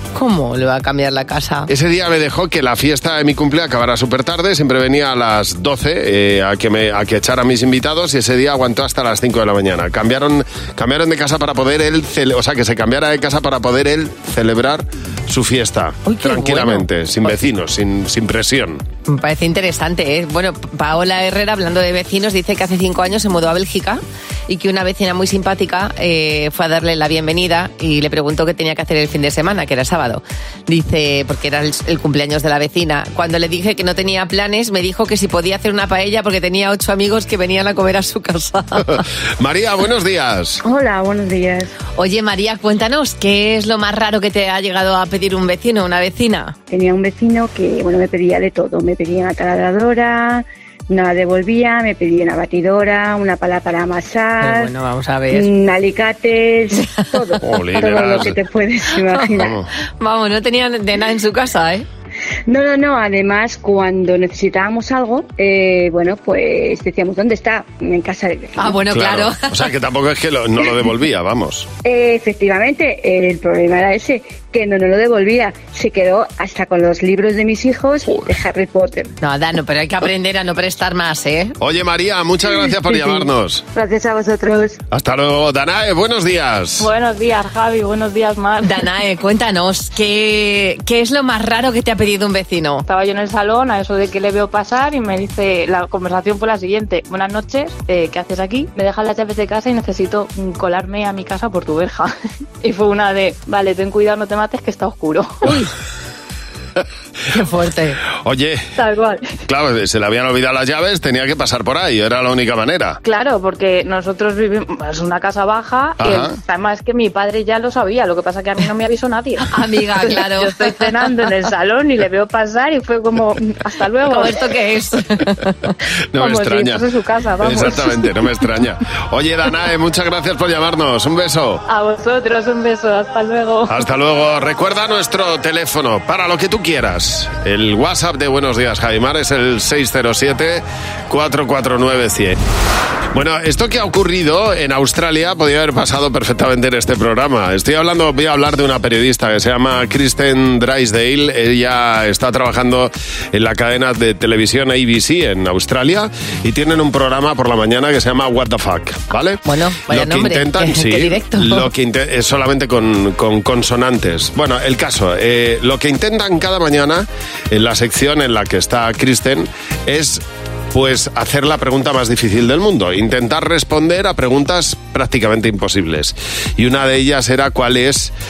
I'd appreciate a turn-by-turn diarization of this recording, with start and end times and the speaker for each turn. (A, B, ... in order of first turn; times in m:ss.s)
0:00.1-0:01.7 A
0:01.7-0:18.8 B
0:16.0-0:16.9 A
0:19.1-0:39.0 A
0:39.4-0:40.6 B
0:40.6-0:41.7 C
0:42.0-0:46.6 A
0:46.7-0:54.7 C
0:54.4-0:55.5 A
0:55.3-0:59.6 C
0:56.7-0:57.3 A
0:57.4-0:58.4 B
0:58.9-1:01.8 A
0:59.4-0:59.6 B
1:02.5-1:08.7 C
1:08.6-1:09.5 A
1:08.9-1:11.7 B
1:11.8-1:19.1 C
1:19.2-1:21.6 A
1:21.6-1:23.6 B
1:23.8-1:24.7 C
1:24.9-1:26.9 B
1:26.8-1:28.9 D
1:28.6-1:32.8 A
1:32.8-1:45.5 D
1:45.4-1:45.7 A
1:47.3-1:48.0 A
1:48.2-1:48.7 B
1:48.8-1:49.3 D
1:49.5-1:53.0 B
1:53.0-2:04.5 D
1:56.0-1:56.4 B
1:59.5-2:01.4 A
2:04.0-2:05.7 A
2:06.1-2:06.8 B
2:06.1-2:08.0 D
2:07.4-2:11.6 B
2:11.7-2:13.8 D
2:13.7-2:22.4 B
2:23.1-2:58.1 B
2:39.4-2:41.7 A